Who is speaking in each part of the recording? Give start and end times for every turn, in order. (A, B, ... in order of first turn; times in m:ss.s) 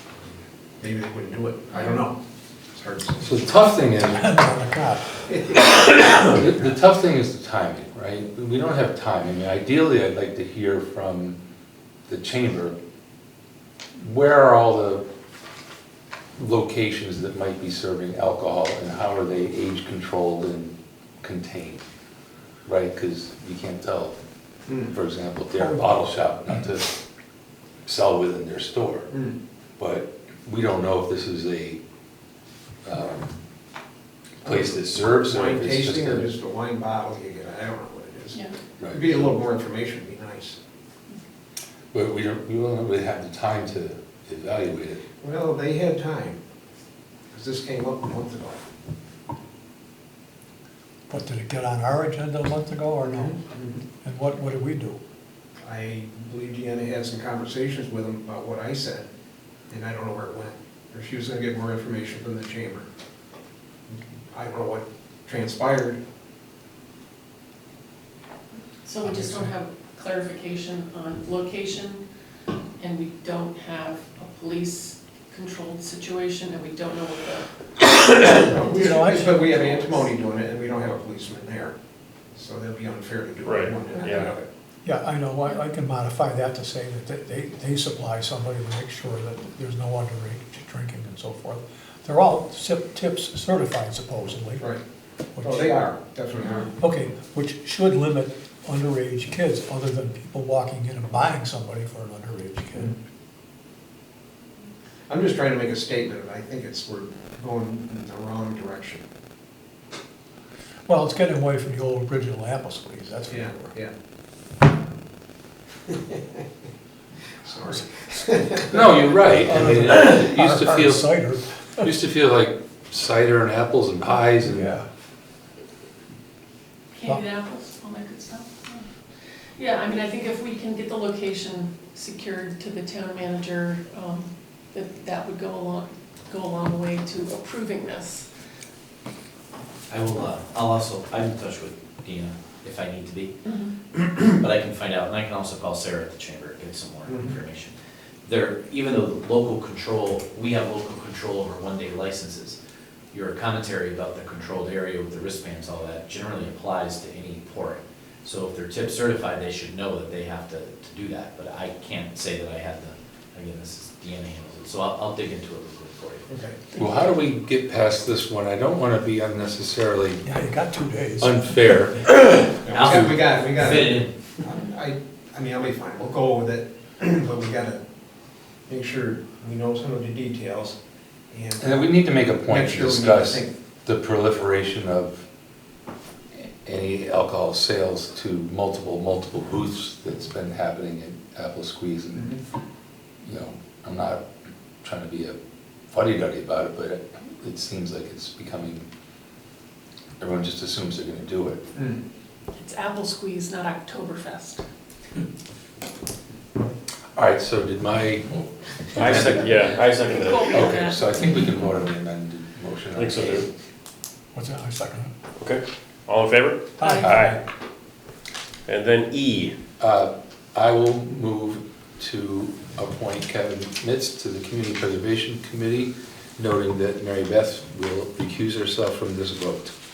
0:00.8-0:02.2 A
0:01.7-0:02.1 B
0:02.7-0:03.4 A
0:03.2-0:04.4 C
0:04.0-0:05.1 D
0:05.2-0:06.3 A
0:06.2-0:11.4 C
0:12.1-0:12.8 C
0:14.0-0:15.0 C
0:16.4-0:21.8 C
0:22.6-0:24.2 C
0:24.7-0:24.9 A
0:24.9-0:27.0 C
0:25.6-0:25.9 D
0:27.8-0:29.1 C
0:29.1-0:29.4 A
0:29.8-0:31.8 C
0:32.8-0:33.4 C
0:34.4-0:36.3 C
0:34.4-0:40.6 A
0:38.8-0:39.3 C
0:41.9-0:45.0 C
0:45.2-0:46.4 A
0:47.3-0:48.6 A
0:51.1-0:53.4 D
0:53.0-0:53.8 A
0:54.0-0:55.0 D
0:55.6-0:59.1 A
0:59.7-1:02.9 A
1:03.9-1:06.0 A
1:08.8-1:12.0 B
1:09.2-1:09.4 D
1:12.8-1:17.5 B
1:18.2-1:21.7 A
1:18.5-1:20.1 B
1:18.7-1:19.3 D
1:22.3-1:24.4 A
1:23.4-1:24.4 E
1:23.9-1:24.3 B
1:24.8-1:34.8 D
1:35.4-1:35.8 D
1:35.4-1:36.7 A
1:36.7-1:43.0 D
1:45.1-1:49.0 A
1:50.8-1:53.8 D
1:53.3-1:53.9 A
1:55.9-1:56.4 A
1:57.4-1:58.8 A
1:58.7-2:01.2 C
1:59.3-2:01.9 D
2:01.8-2:04.7 C
2:04.4-2:04.8 D
2:06.9-2:08.8 B
2:09.6-2:18.3 B
2:19.9-2:23.3 F
2:23.4-2:23.7 B
2:23.9-2:32.6 F
2:27.0-2:27.4 A
2:33.1-2:46.3 F
2:46.3-2:46.6 A
2:46.7-2:50.2 C
2:50.2-2:51.8 D
2:51.2-2:53.2 C
2:52.6-2:57.8 A
2:52.7-2:54.1 F
2:58.7-3:00.8 A
3:01.3-3:01.8 A
3:01.6-3:05.2 C
3:02.5-3:03.5 A
3:06.3-3:12.4 C
3:12.1-3:12.4 A
3:13.2-3:14.2 C
3:14.8-3:15.4 C
3:15.9-3:18.9 C
3:20.2-3:21.6 C
3:21.7-3:22.0 A
3:22.5-3:24.6 B
3:27.2-3:29.6 C
3:29.0-3:30.8 E
3:30.0-3:31.4 B
3:30.5-3:33.5 C
3:32.9-3:33.4 E
3:34.3-3:35.1 D
3:35.4-3:37.4 E
3:36.8-3:37.4 D
3:36.8-3:37.1 B
3:37.0-3:37.4 C
3:38.7-3:39.5 E
3:39.8-3:49.7 C